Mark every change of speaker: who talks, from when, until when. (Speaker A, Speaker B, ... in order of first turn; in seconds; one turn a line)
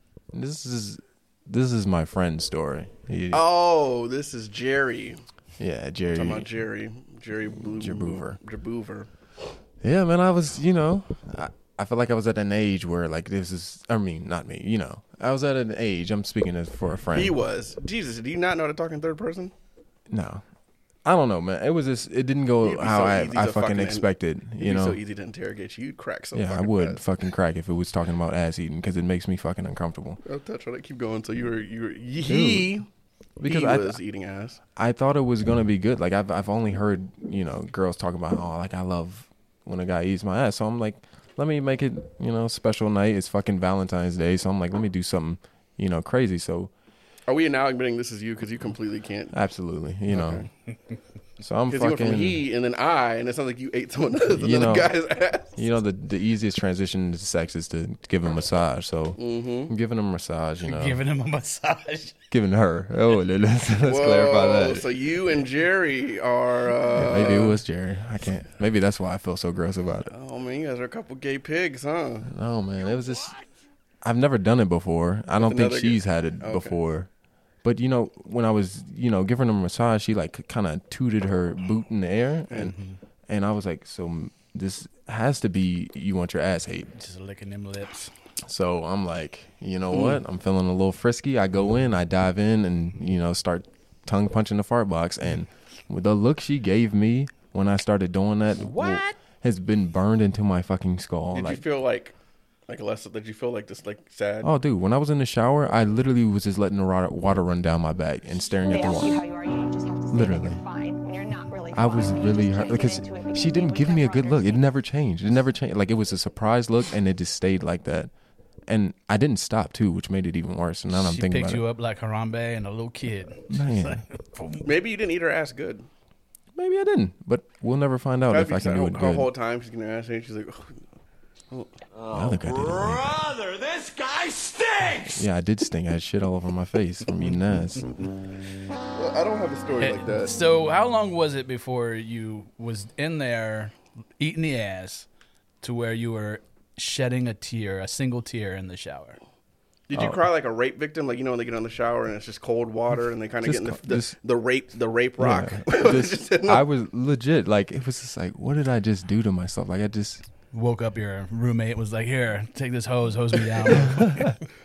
Speaker A: 0.3-3.5
Speaker B: 3.3-5.2
Speaker A: 5.6-6.5
Speaker B: 6.1-9.1
Speaker A: 7.5-8.4
Speaker A: 9.8-17.4
Speaker B: 17.1-19.5
Speaker A: 20.1-20.4
Speaker A: 21.1-25.0
Speaker B: 22.6-27.1
Speaker A: 26.3-30.2
Speaker B: 30.2-32.9
Speaker A: 32.3-32.7
Speaker A: 33.4-34.0
Speaker B: 33.4-34.6
Speaker A: 34.8-46.7
Speaker B: 47.3-49.4
Speaker A: 49.3-50.5
Speaker B: 50.1-50.5
Speaker A: 51.4-52.4
Speaker B: 51.7-55.6
Speaker A: 54.2-54.9
Speaker A: 55.6-61.0
Speaker B: 59.2-59.7
Speaker C: 60.6-62.2
Speaker A: 62.3-64.9
Speaker B: 63.8-67.6
Speaker A: 66.9-70.1
Speaker B: 70.1-72.3
Speaker A: 72.3-73.4
Speaker A: 74.0-77.1
Speaker B: 75.4-76.8
Speaker A: 77.6-82.8
Speaker C: 82.7-83.0
Speaker A: 83.3-86.9
Speaker C: 87.0-88.1
Speaker A: 88.4-101.7
Speaker B: 89.9-90.2
Speaker B: 98.7-99.1
Speaker B: 101.3-102.2
Speaker B: 102.7-104.5
Speaker A: 104.4-109.2
Speaker D: 108.7-114.6
Speaker A: 110.1-110.6
Speaker A: 111.7-118.1
Speaker A: 118.7-121.7
Speaker C: 120.9-124.7
Speaker A: 123.5-124.0
Speaker B: 124.6-125.9
Speaker A: 126.5-129.3
Speaker B: 128.3-130.8
Speaker E: 131.9-135.2
Speaker A: 132.1-133.2
Speaker A: 135.0-137.9
Speaker B: 138.9-140.3
Speaker C: 139.8-145.1
Speaker C: 145.6-149.2
Speaker B: 149.9-156.7
Speaker A: 149.9-150.2
Speaker A: 153.4-154.2
Speaker A: 155.2-160.2
Speaker C: 160.5-164.4